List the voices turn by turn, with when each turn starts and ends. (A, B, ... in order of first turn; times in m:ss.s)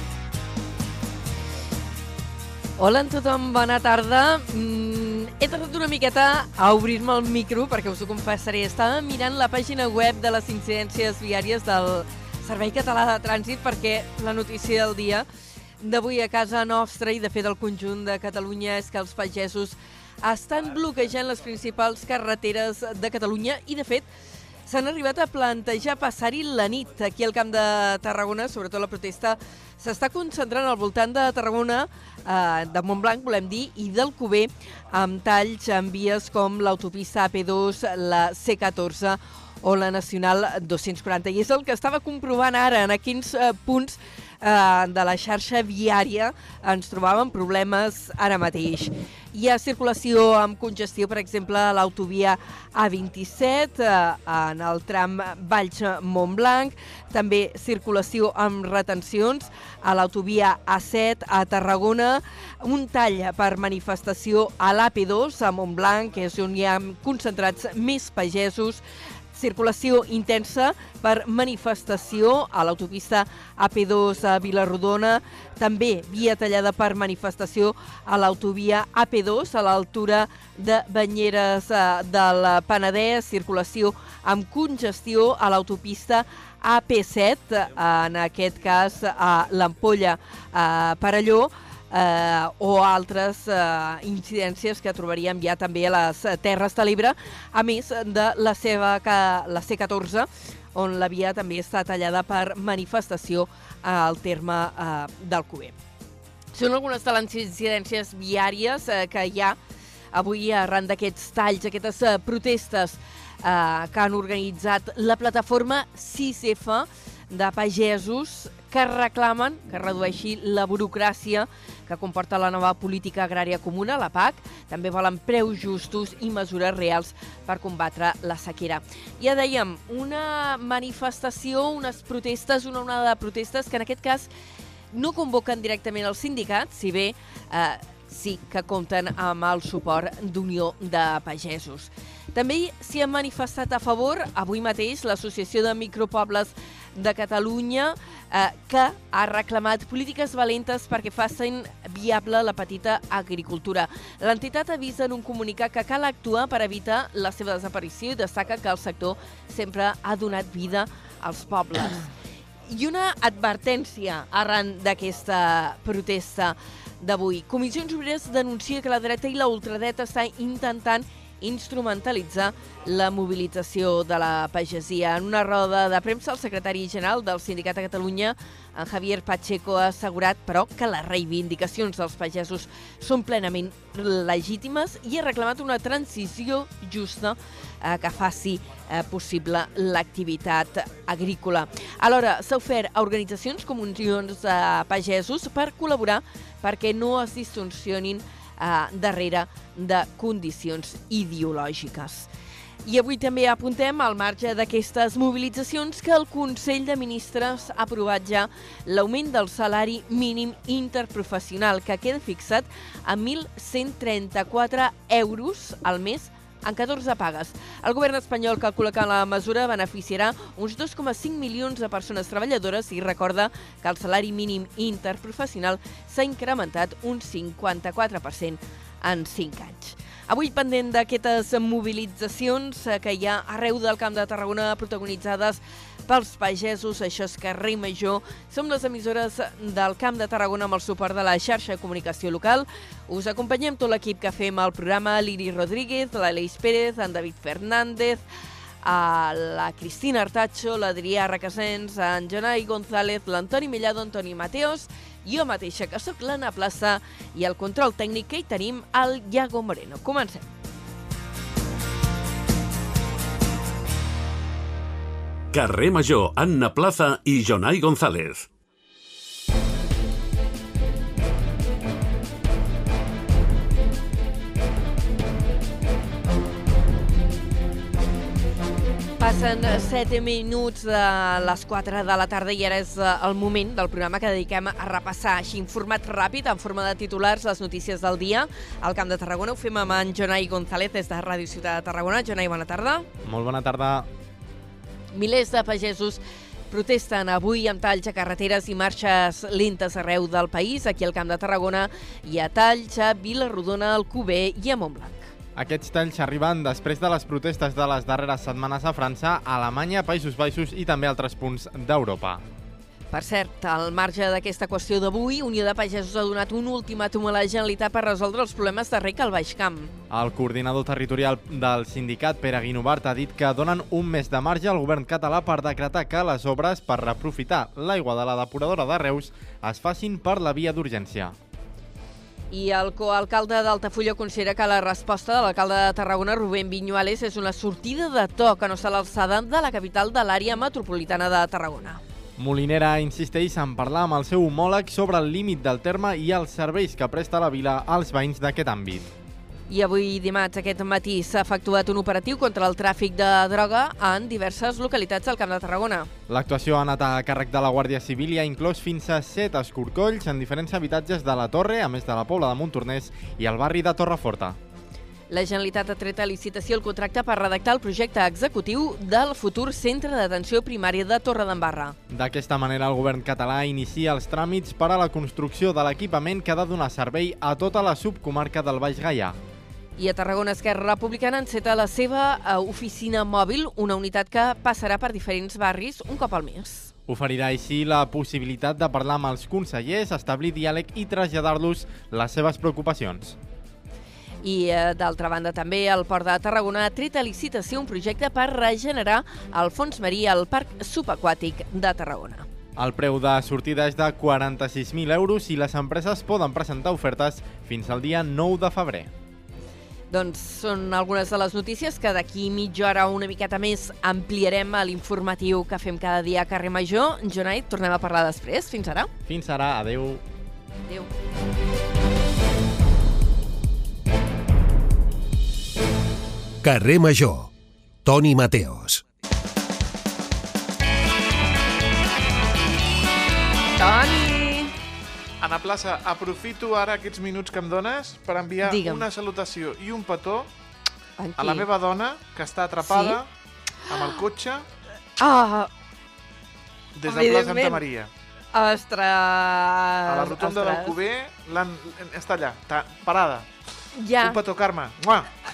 0:02.8-0:15.3 A
0:15.8-0:24.1 A
0:24.6-1:08.8 A
1:09.3-1:45.8 A
1:46.5-1:49.6 A
1:50.1-2:14.3 A
2:14.9-2:42.1 A
2:42.6-3:22.3 A
3:22.8-4:08.2 A
4:08.8-4:20.5 A
4:25.5-4:28.5 B
4:39.2-4:53.1 A
4:53.2-4:54.1 C
4:55.1-5:05.3 A
5:05.6-5:12.4 C
5:13.1-5:19.9 A
5:20.1-5:31.3 C
5:32.5-5:42.0 A
5:42.4-5:49.1 C
5:49.7-5:56.1 A
5:56.3-6:04.6 C
6:05.3-6:12.0 A
6:12.1-6:19.4 C
6:20.0-6:26.9 A
6:27.1-6:33.4 C
6:34.4-6:42.5 A
6:42.8-6:49.1 C
6:50.1-6:59.1 A
6:59.3-7:00.2 C
7:06.6-7:07.5 D
7:08.0-7:09.0 D
7:13.8-7:14.7 A
7:15.4-7:20.5 E
7:18.6-7:19.0 A
7:21.2-7:21.7 A
7:21.4-7:23.3 E
7:22.8-7:23.2 A
7:23.8-7:24.6 E
7:25.2-7:25.7 A
7:27.0-7:28.1 E
7:27.1-7:27.8 A
7:28.5-7:31.0 A
7:30.1-7:33.5 E
7:33.9-7:34.4 A
7:34.2-7:35.3 E